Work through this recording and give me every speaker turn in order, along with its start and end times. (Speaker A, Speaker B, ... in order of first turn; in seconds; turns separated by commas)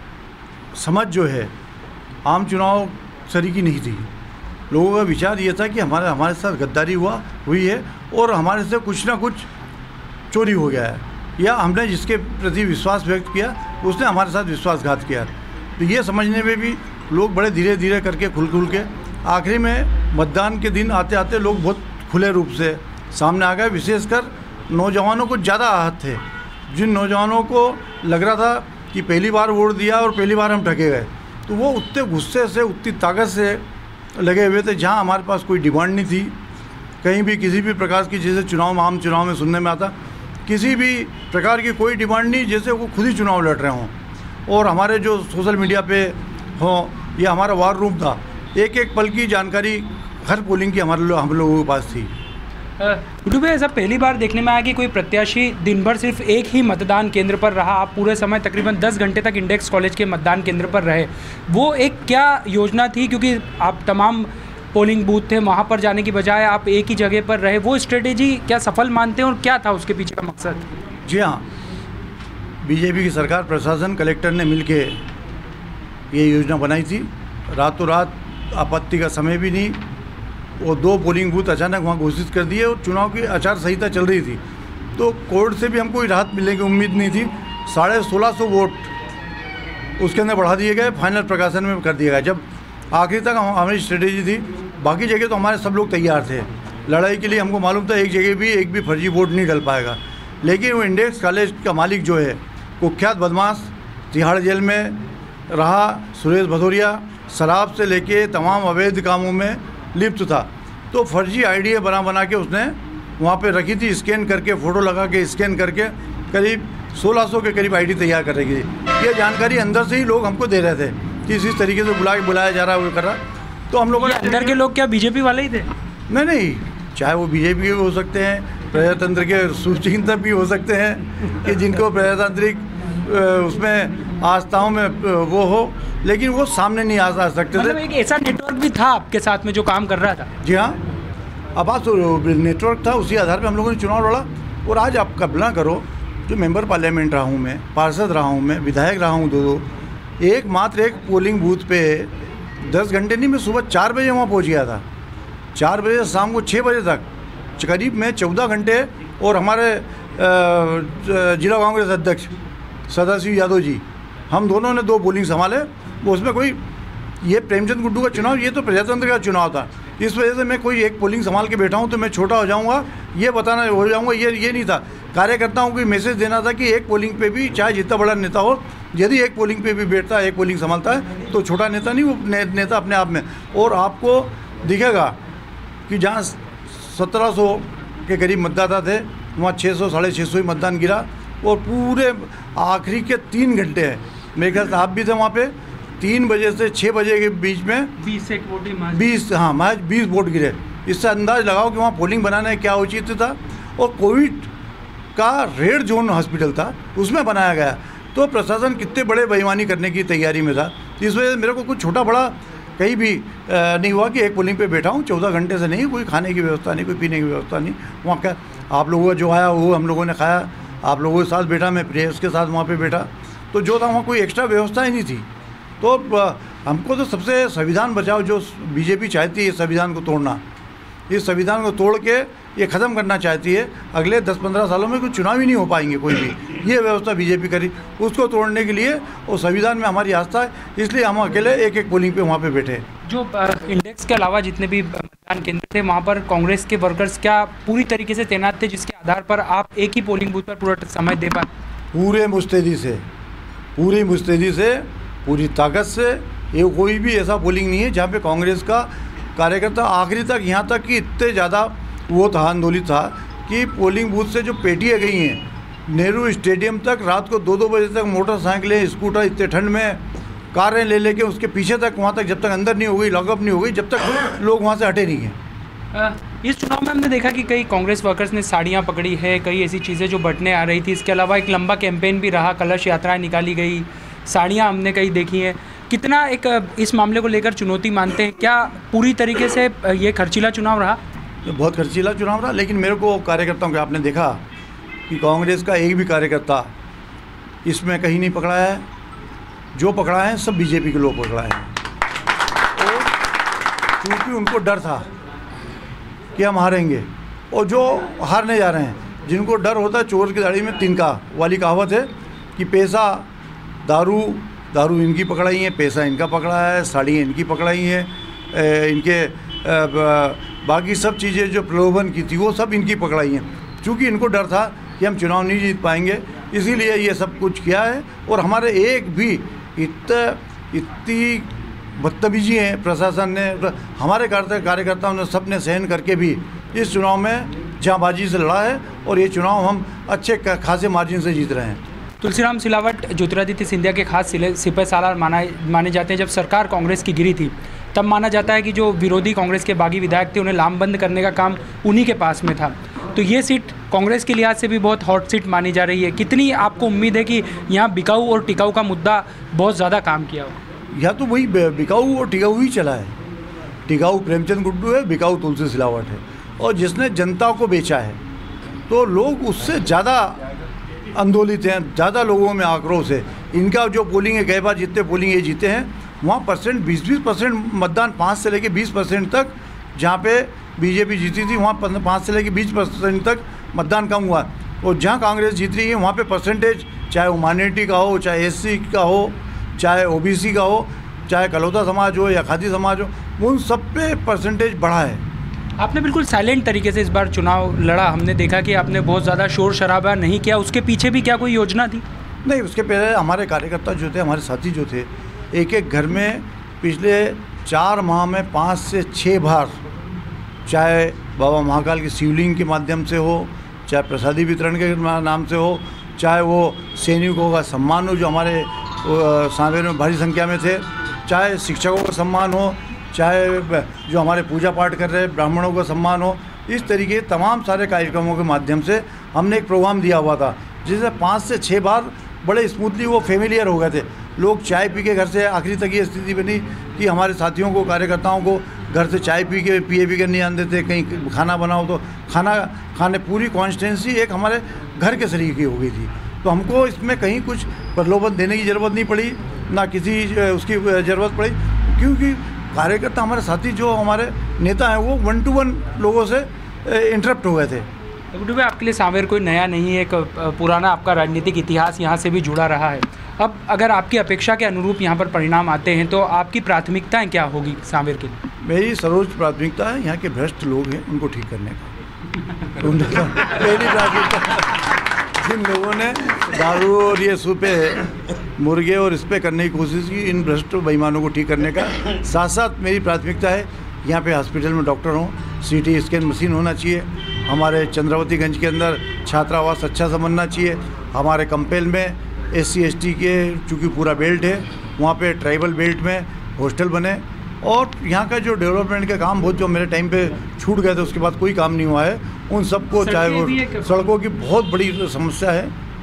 Speaker A: 0.7-1.5, Speaker A: 2.2-4.1, Speaker A: 4.7-9.5, Speaker A: 10.3-33.6, Speaker A: 34.1-36.3, Speaker A: 37.0-43.9, Speaker A: 44.5-52.1, Speaker B: 52.8-70.6, Speaker A: 71.0-71.5, Speaker A: 72.6-75.0, Speaker A: 76.1-79.8, Speaker A: 80.6-84.4, Speaker A: 85.0-88.9, Speaker A: 90.0-124.6, Speaker B: 123.9-125.7, Speaker A: 126.1-137.8, Speaker B: 137.5-140.3, Speaker A: 140.4-140.8, Speaker A: 141.5-149.7, Speaker A: 150.2-154.8, Speaker A: 155.5-157.1, Speaker A: 157.6-162.3, Speaker A: 162.9-166.6, Speaker A: 167.2-185.2, Speaker A: 185.9-197.9, Speaker B: 198.0-199.1, Speaker A: 198.9-204.5, Speaker A: 205.2-225.3, Speaker A: 225.8-230.4, Speaker A: 231.1-242.8, Speaker B: 243.0-251.5, Speaker A: 251.9-253.0, Speaker A: 253.8-275.4, Speaker B: 275.9-291.0, Speaker A: 291.4-294.4, Speaker A: 295.1-296.7, Speaker A: 297.6-298.9, Speaker A: 299.7-301.7, Speaker A: 304.0-305.1, Speaker A: 306.4-313.3, Speaker A: 313.8-341.8, Speaker B: 342.2-360.6, Speaker A: 360.9-363.1, Speaker A: 363.9-368.2, Speaker A: 368.9-370.4, Speaker A: 371.1-395.2, Speaker B: 395.8-402.0, Speaker A: 402.4-409.8, Speaker A: 410.7-457.9, Speaker B: 458.3-468.4, Speaker A: 468.6-471.9, Speaker A: 472.8-474.8, Speaker A: 475.4-505.7, Speaker B: 502.9-504.0